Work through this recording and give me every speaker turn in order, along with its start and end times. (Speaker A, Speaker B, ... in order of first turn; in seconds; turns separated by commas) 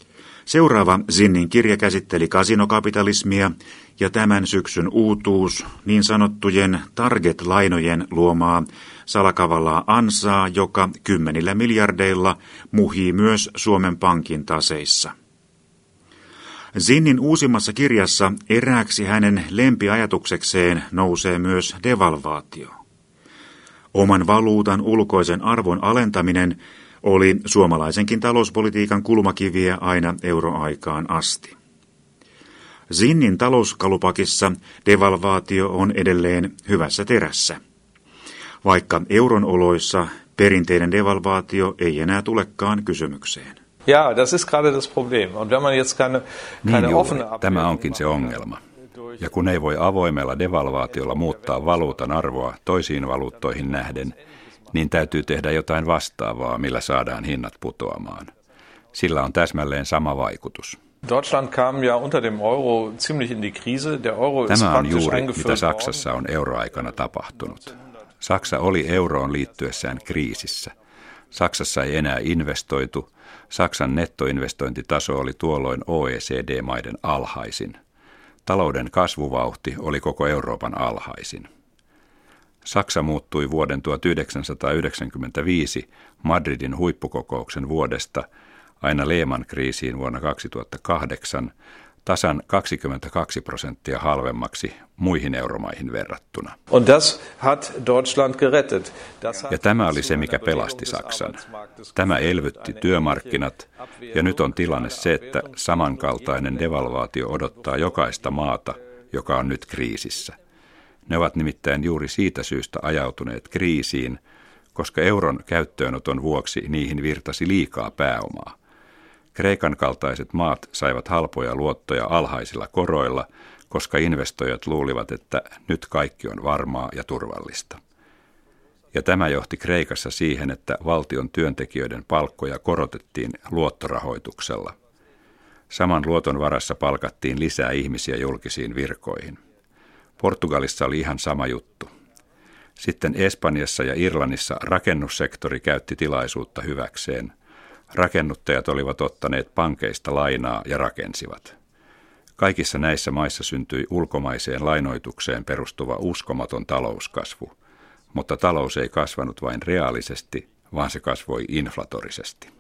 Speaker A: 0.5-15.1, Speaker A: 16.7-22.7, Speaker A: 23.9-31.5, Speaker A: 32.9-37.6, Speaker A: 38.6-43.5, Speaker B: 43.9-48.4, Speaker C: 46.6-48.6, Speaker C: 49.2-54.1, Speaker B: 50.9-52.2, Speaker B: 53.4-54.2, Speaker C: 54.7-58.3, Speaker C: 58.9-60.8, Speaker B: 61.0-66.0, Speaker C: 64.5-70.7, Speaker C: 71.3-77.8, Speaker C: 78.5-81.5, Speaker C: 82.6-88.2, Speaker C: 88.8-91.5, Speaker C: 92.0-96.5, Speaker B: 96.7-108.4, Speaker C: 99.5-101.4, Speaker C: 101.9-110.3, Speaker C: 111.1-114.2, Speaker C: 114.7-118.5, Speaker C: 119.3-127.8, Speaker C: 128.9-134.7, Speaker C: 135.7-139.4, Speaker C: 140.2-141.9, Speaker C: 142.8-147.3, Speaker C: 147.9-151.5, Speaker C: 152.4-157.5, Speaker C: 158.1-162.5